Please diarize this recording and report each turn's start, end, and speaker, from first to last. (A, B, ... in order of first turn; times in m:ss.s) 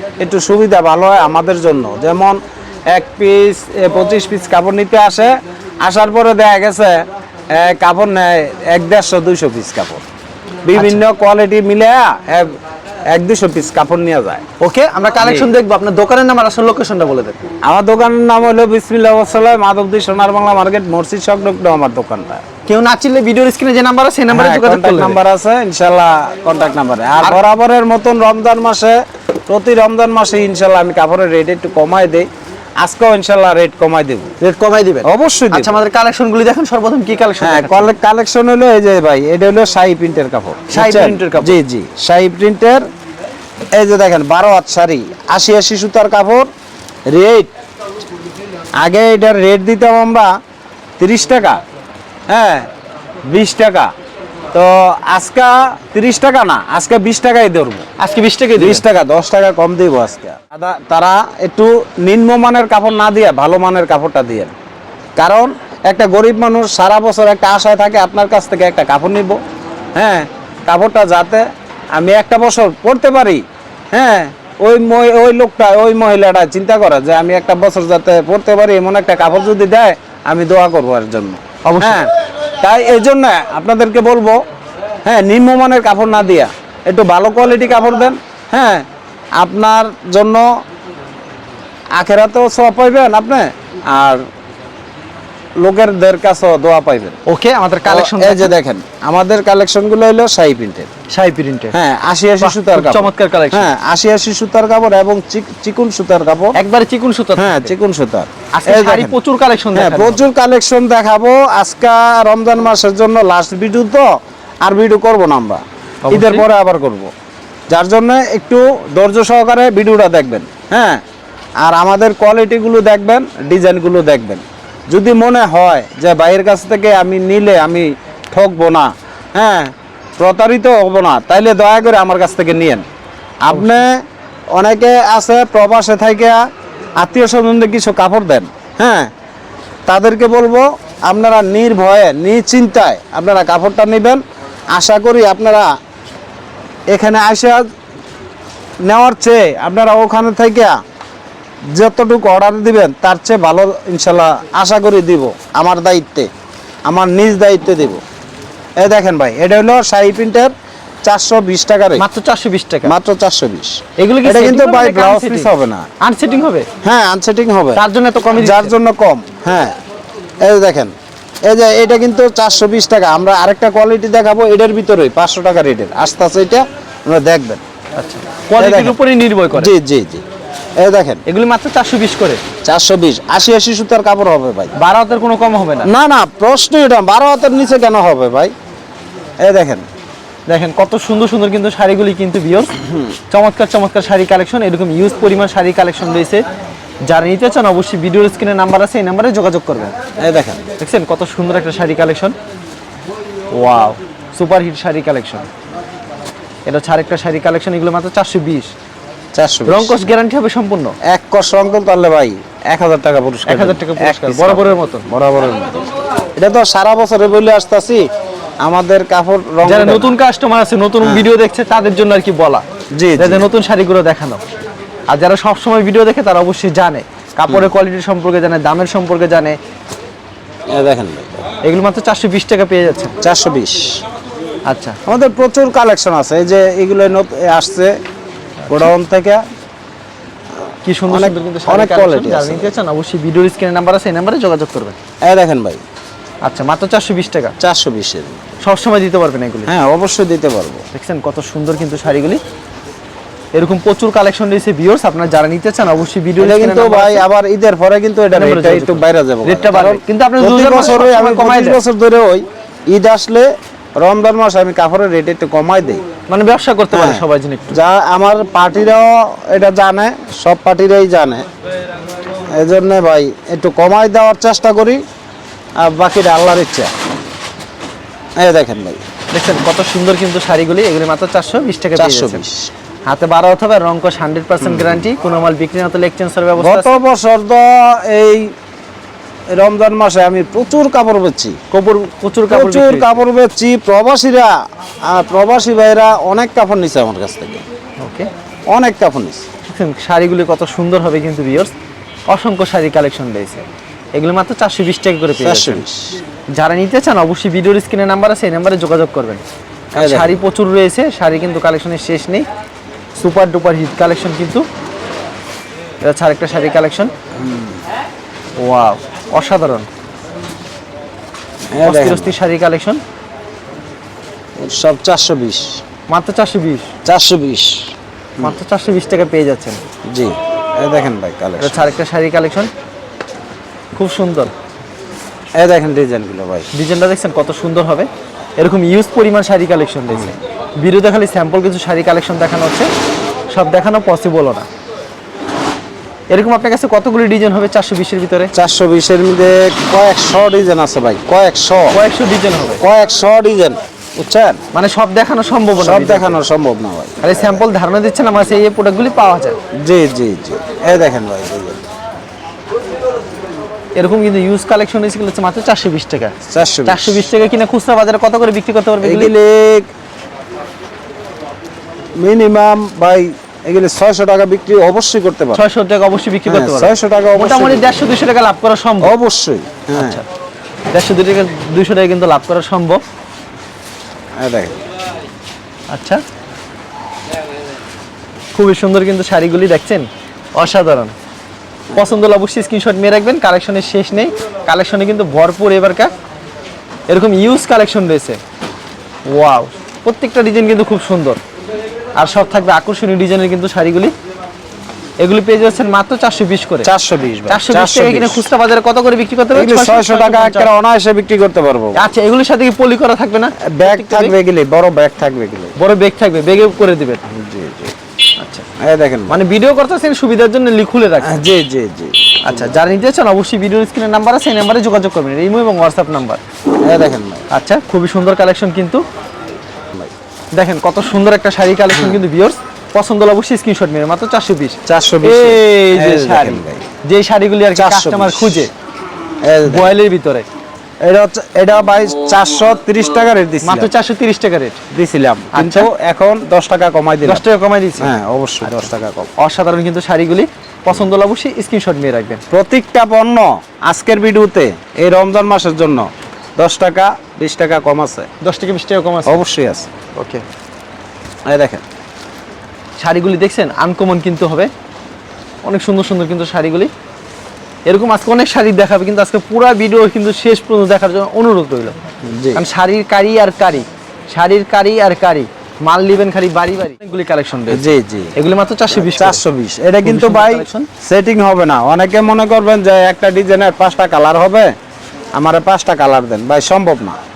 0:00.2-0:02.4 A
0:02.9-0:05.3 A
0:05.8-0:07.0 A
0:07.5-0:10.0 A
0:10.6-0:12.5 A
0:10.7-0:11.0 B
0:13.1-0:14.4 A
0:14.6-0:17.4 B
0:15.2-0:15.5 A
0:17.6-0:22.4 A
0:22.7-0:25.2 B
0:24.3-0:29.0 A
0:29.5-0:32.3 A
0:32.8-0:34.3 A
0:34.4-0:37.9 B
0:35.0-0:35.8 A
0:37.4-0:42.8 A
0:40.7-0:41.6 B
0:43.7-0:46.5 A
0:47.1-0:47.5 A
0:48.8-0:50.3 A
0:51.0-0:51.6 A
0:52.3-0:52.7 A
0:53.3-0:53.9 A
0:54.5-0:57.8 A
0:58.0-0:58.8 B
0:58.6-1:04.5 A
1:05.2-1:09.4 A
1:10.0-1:24.4 A
1:21.6-1:22.0 B
1:25.1-1:28.8 A
1:29.4-1:30.4 A
1:32.0-1:34.2 A
1:35.6-1:37.2 A
1:37.3-1:38.6 B
1:37.9-1:40.9 A
1:41.1-1:41.8 B
1:41.7-1:46.6 A
1:42.4-1:43.7 B
1:46.6-1:47.8 B
1:47.4-1:49.2 A
1:48.6-1:50.2 B
1:49.8-1:54.0 A
1:54.6-1:57.1 A
1:56.0-1:56.5 B
1:57.7-2:01.0 A
2:01.6-2:12.8 A
2:13.4-2:14.0 A
2:13.5-2:13.8 B
2:14.6-2:16.4 A
2:17.0-2:19.1 A
2:19.9-2:24.2 A
2:24.7-2:25.7 A
2:26.9-2:27.7 A
2:28.8-2:30.8 A
2:31.7-2:36.3 A
2:36.9-2:38.0 A
2:38.8-2:40.5 A
2:41.0-2:42.1 A
2:42.0-2:42.9 B
2:42.8-2:45.9 A
2:44.0-2:46.7 B
2:46.8-2:47.8 A
2:47.8-2:48.7 B
2:48.4-2:49.7 A
2:50.4-2:50.9 A
2:51.5-2:57.6 A
2:58.0-2:59.7 B
2:58.6-2:59.0 A
2:59.5-3:00.2 A
3:00.8-3:01.2 A
3:01.3-3:02.4 B
3:02.6-3:04.7 A
3:04.8-3:05.9 B
3:05.8-3:08.5 A
3:09.4-3:09.8 A
3:10.5-3:12.7 B
3:12.8-3:13.1 A
3:13.3-3:16.4 B
3:17.0-3:19.9 B
3:20.2-3:20.6 A
3:20.8-3:22.4 B
3:23.5-3:25.5 B
3:26.6-3:28.7 B
3:29.4-3:30.1 A
3:29.7-3:31.0 B
3:31.0-3:38.1 A
3:33.5-3:35.1 B
3:38.6-3:40.2 A
3:39.6-3:42.6 B
3:43.0-3:43.5 A
3:43.2-3:44.4 B
3:45.1-3:49.6 B
3:50.7-3:51.3 A
3:51.6-3:53.2 B
3:53.2-3:54.0 A
3:54.7-3:55.0 B
3:55.1-3:58.0 A
3:58.7-3:59.4 A
4:00.8-4:05.0 B
4:01.1-4:02.8 A
4:05.2-4:05.8 A
4:06.4-4:07.6 B
4:07.6-4:08.4 A
4:08.6-4:09.7 B
4:09.7-4:10.8 A
4:10.9-4:12.4 B
4:13.6-4:17.2 B
4:16.4-4:23.5 A
4:18.3-4:21.8 B
4:24.0-4:26.0 A
4:26.3-4:27.8 B
4:26.9-4:31.4 A
4:32.5-4:35.0 A
4:35.8-4:36.9 A
4:38.4-4:39.0 A
4:39.3-4:42.4 B
4:42.0-4:42.7 A
4:43.1-4:47.0 B
4:44.6-4:45.1 A
4:46.6-4:48.5 A
4:49.5-4:51.6 A
4:51.7-4:53.2 B
4:52.5-4:54.5 A
4:55.1-4:57.6 A
4:58.0-4:58.3 B
4:58.7-4:59.4 A
4:59.6-5:01.7 B
5:02.3-5:03.6 B
5:04.2-5:05.8 B
5:05.4-5:06.2 A
5:06.5-5:09.4 B
5:10.0-5:10.4 A
5:10.0-5:12.4 B
5:13.2-5:14.7 B
5:16.0-5:17.1 B
5:17.4-5:17.8 A
5:18.6-5:19.9 B
5:21.7-5:22.4 A
5:21.8-5:23.0 B
5:24.6-5:25.8 A
5:26.1-5:26.9 B
5:27.1-5:28.6 A
5:28.4-5:29.8 B
5:30.1-5:31.9 A
5:31.6-5:32.7 B
5:34.0-5:34.5 B
5:35.6-5:36.7 A
5:36.7-5:42.9 B
5:43.5-5:44.7 B
5:46.3-5:48.5 B
5:48.5-5:52.0 A
5:51.9-5:52.8 B
5:52.8-5:54.6 A
5:54.7-5:56.4 B
5:55.8-5:57.6 A
5:57.2-5:59.6 B
5:59.8-6:01.8 A
6:04.0-6:06.4 B
6:06.5-6:07.2 A
6:06.9-6:09.3 B
6:09.0-6:09.9 A
6:12.2-6:15.6 A
6:15.5-6:19.1 B
6:16.5-6:18.0 A
6:19.0-6:20.2 A
6:19.9-6:20.2 B
6:20.9-6:23.0 B
6:24.4-6:24.8 A
6:25.9-6:26.2 B
6:28.6-6:31.1 B
6:31.9-6:36.1 B
6:37.1-6:38.4 B
6:39.3-6:41.4 B
6:42.2-6:44.1 B
6:45.2-6:46.9 B
6:46.8-6:48.4 A
6:47.5-6:50.7 B
6:49.5-6:52.0 A
6:52.0-6:54.4 B
6:53.6-6:55.8 A
6:55.8-6:57.2 B
6:57.3-6:57.9 A
6:58.4-6:58.6 B
6:58.8-6:59.4 A
6:59.3-7:01.5 B
7:01.2-7:02.7 A
7:02.4-7:06.4 B
7:06.8-7:07.4 A
7:07.5-7:09.0 B
7:10.5-7:18.7 B
7:11.9-7:12.2 A
7:14.9-7:16.8 A
7:17.8-7:18.7 A
7:19.4-7:20.0 A
7:19.6-7:20.5 B
7:21.0-7:23.9 A
7:23.6-7:24.8 B
7:24.9-7:27.4 A
7:25.5-7:25.9 B
7:27.2-7:28.1 B
7:28.0-7:29.3 A
7:28.6-7:32.4 B
7:32.5-7:38.3 A
7:38.4-7:39.4 B
7:39.3-7:39.9 A
7:40.2-7:40.4 B
7:41.5-7:41.8 A
7:43.0-7:44.7 B
7:45.6-7:46.9 B
7:47.9-7:52.0 B
7:52.2-7:52.6 A
7:52.5-7:59.4 B
7:57.7-7:58.3 A
7:58.9-8:04.7 A
8:00.0-8:00.9 B
8:05.4-8:07.2 A